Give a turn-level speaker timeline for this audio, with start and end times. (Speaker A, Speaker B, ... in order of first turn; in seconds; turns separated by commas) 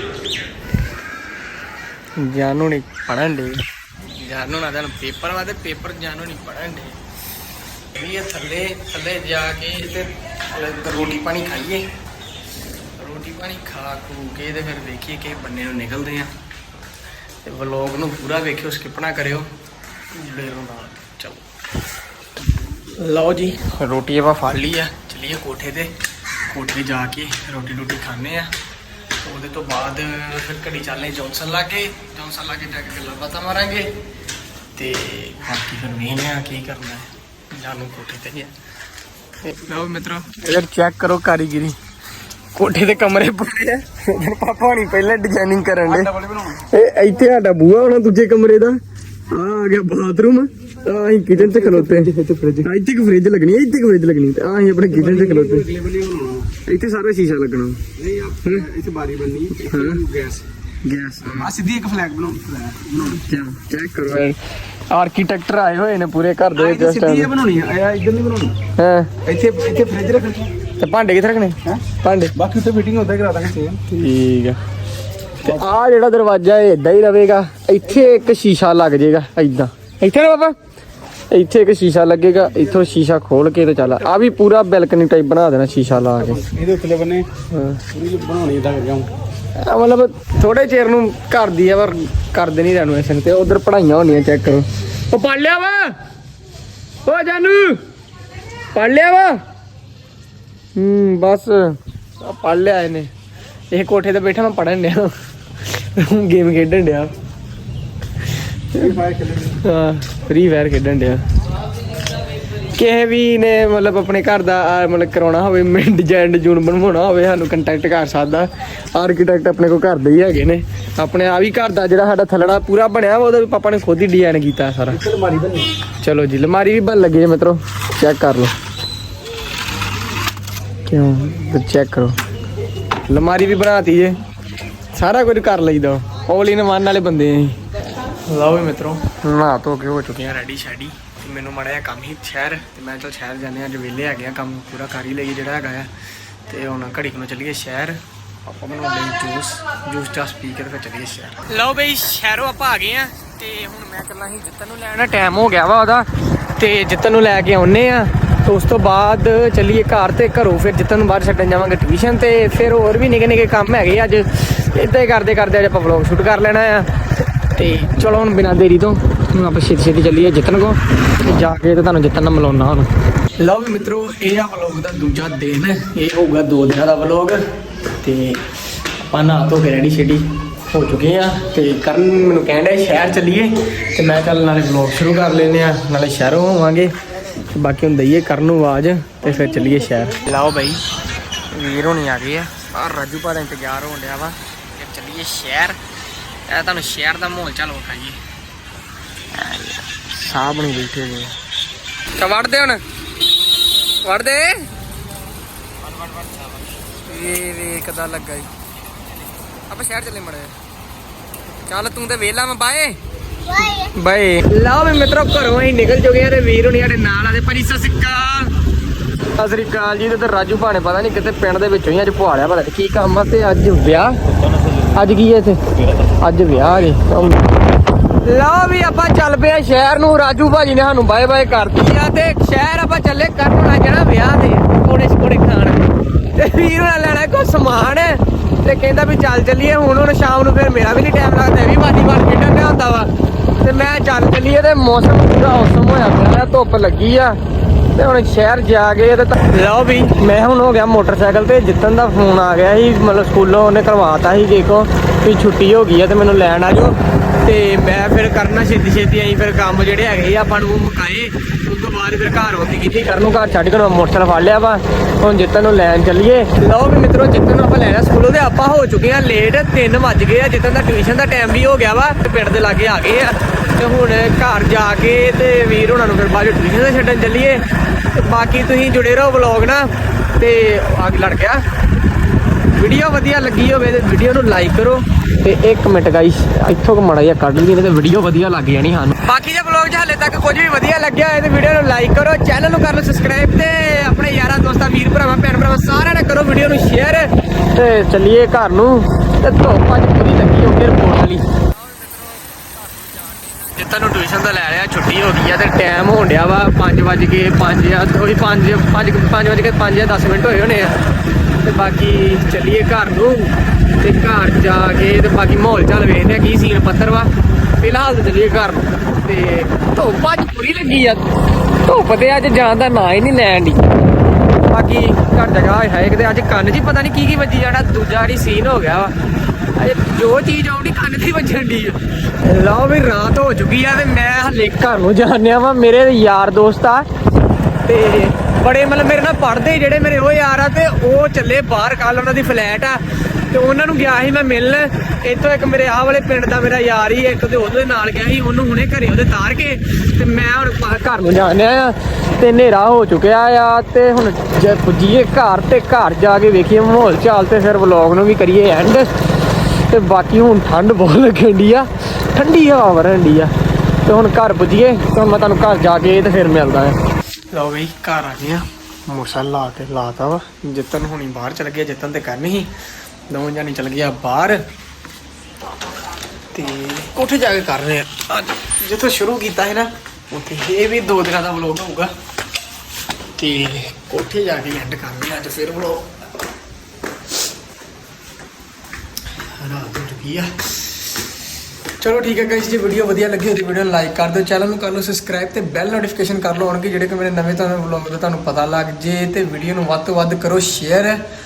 Speaker A: 2.2-7.0, Speaker A: 7.9-11.9, Speaker A: 13.0-16.4, Speaker A: 17.4-19.5, Speaker A: 20.1-21.5, Speaker A: 23.0-25.9, Speaker A: 26.4-28.5, Speaker A: 29.2-33.9, Speaker A: 34.8-38.5, Speaker A: 39.4-41.8, Speaker A: 42.5-55.7, Speaker B: 45.9-46.6, Speaker B: 51.4-52.7, Speaker B: 54.9-56.5, Speaker A: 56.5-57.9, Speaker B: 58.0-60.5, Speaker A: 59.5-60.0, Speaker A: 60.8-61.5, Speaker B: 61.3-63.2, Speaker A: 63.0-67.3, Speaker B: 66.6-68.6, Speaker A: 68.8-69.1, Speaker B: 69.2-70.5, Speaker A: 70.8-72.3, Speaker B: 72.3-73.8, Speaker A: 73.9-74.6, Speaker A: 75.4-80.6, Speaker A: 81.3-86.5, Speaker B: 86.3-87.3, Speaker A: 87.5-87.9, Speaker B: 87.9-89.1, Speaker A: 89.6-96.0, Speaker A: 97.0-97.8, Speaker A: 98.7-99.4, Speaker A: 100.8-103.1, Speaker A: 103.7-107.1, Speaker A: 108.7-111.3, Speaker B: 108.8-109.6, Speaker A: 112.5-125.0, Speaker B: 124.9-125.7, Speaker A: 126.0-128.5, Speaker A: 130.9-132.2, Speaker A: 133.1-134.2, Speaker A: 134.9-137.6, Speaker A: 138.2-145.9, Speaker A: 146.5-166.9, Speaker A: 167.6-177.4, Speaker A: 178.0-190.8, Speaker A: 191.5-195.8, Speaker A: 196.5-198.2, Speaker A: 199.3-201.4, Speaker A: 202.2-202.8, Speaker A: 204.0-204.7, Speaker A: 205.9-208.7, Speaker A: 209.7-210.6, Speaker A: 211.7-213.0, Speaker A: 213.5-218.6, Speaker A: 219.2-227.4, Speaker A: 228.1-247.4, Speaker A: 247.9-281.6, Speaker A: 282.7-311.1, Speaker A: 311.6-323.9, Speaker A: 324.7-329.1, Speaker A: 329.8-337.1, Speaker A: 337.8-367.0, Speaker A: 367.5-372.7, Speaker A: 373.3-374.6, Speaker A: 376.5-382.1, Speaker A: 383.4-386.1, Speaker A: 389.4-391.0, Speaker A: 392.0-401.2